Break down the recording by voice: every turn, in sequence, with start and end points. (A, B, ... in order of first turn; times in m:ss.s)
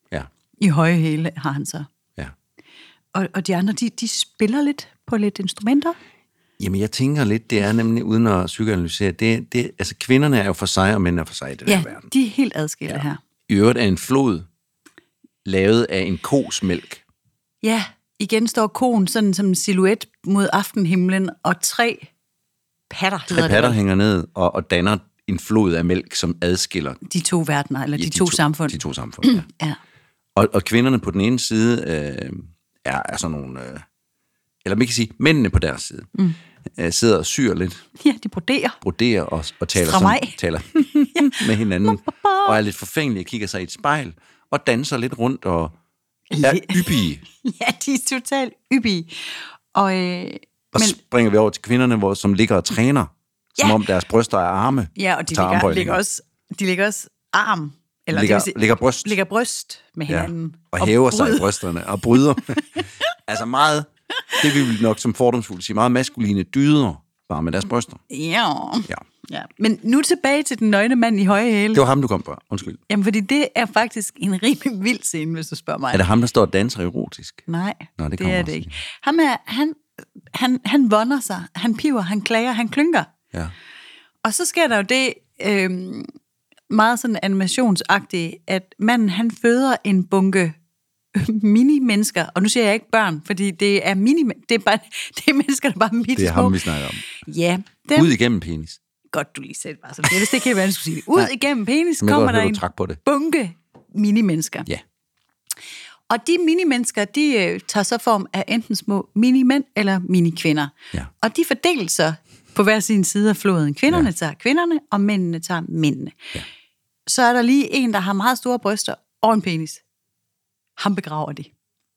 0:00.6-0:01.9 A
0:03.1-0:06.0 A
0:06.6-0:12.1 B
0:11.7-0:13.2 A
0:12.9-0:14.5 B
0:15.4-0:17.0 B
0:17.6-0:22.1 A
0:22.9-0:23.8 A
0:23.3-0:27.0 B
0:27.0-0:29.8 A
0:28.0-0:29.5 B
0:30.4-0:33.8 B
0:34.6-0:36.1 B
0:36.7-0:37.8 B
0:38.0-0:38.8 A
0:38.8-0:45.8 B
0:39.8-0:42.6 A
0:46.3-0:51.0 A
0:46.4-0:47.2 B
0:50.7-0:56.0 B
0:55.0-1:01.6 A
0:58.1-0:59.2 B
1:00.1-1:08.0 B
1:02.6-1:02.8 A
1:08.1-1:11.8 A
1:11.7-1:12.8 B
1:12.9-1:16.0 A
1:15.9-1:17.4 B
1:17.5-1:19.8 A
1:18.0-1:18.7 B
1:20.3-1:23.1 A
1:24.2-1:26.1 A
1:26.7-1:30.6 A
1:31.1-1:38.1 A
1:36.2-1:37.1 B
1:37.9-1:38.8 B
1:39.1-1:44.7 A
1:42.0-1:43.0 B
1:46.1-1:56.2 A
1:57.1-1:59.8 A
2:00.8-2:01.5 A